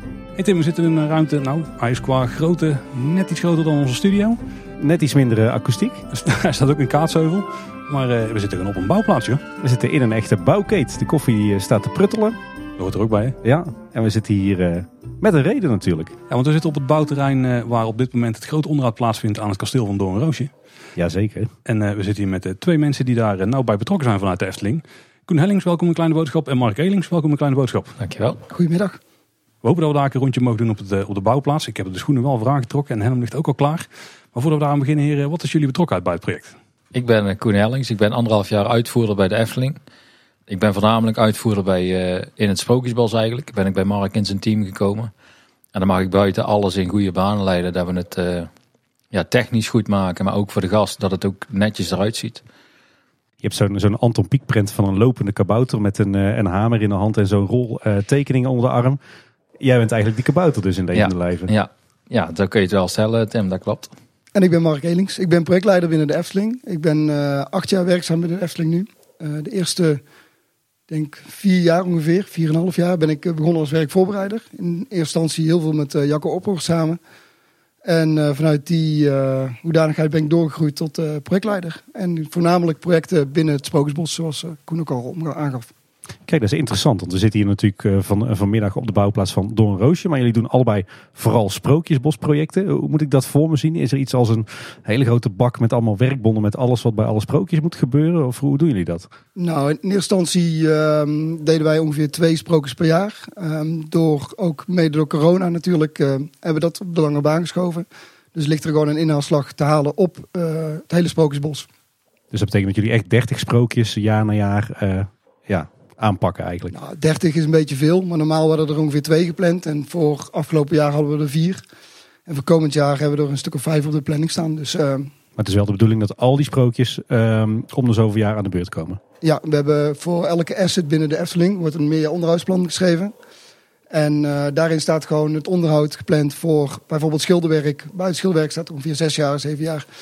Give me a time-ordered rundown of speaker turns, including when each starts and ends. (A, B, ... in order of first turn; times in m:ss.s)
0:00.4-0:04.4 A
0:04.8-0:06.0 B
0:06.1-0:09.4 A
0:09.6-0:12.4 B
0:12.8-0:13.4 A
0:13.4-0:16.1 B
0:16.3-0:20.5 A
0:21.0-0:21.5 B
0:21.6-0:28.0 A
0:28.0-0:28.4 C
0:28.5-0:29.0 D
0:29.6-0:36.5 A
0:36.9-0:39.8 C
0:40.5-0:45.1 C
0:45.7-0:48.5 C
0:49.1-0:52.4 C
0:53.4-0:59.0 B
0:59.6-1:01.5 B
1:00.9-1:03.9 C
1:04.3-1:10.0 D
1:10.9-1:17.0 D
1:17.8-1:25.7 D
1:26.2-1:39.1 B
1:39.4-1:51.7 D
1:52.3-1:56.7 B
1:56.7-2:01.6 D
2:02.3-2:05.1 D
2:05.4-2:09.0 B
2:09.2-2:13.1 D
2:13.9-2:19.8 D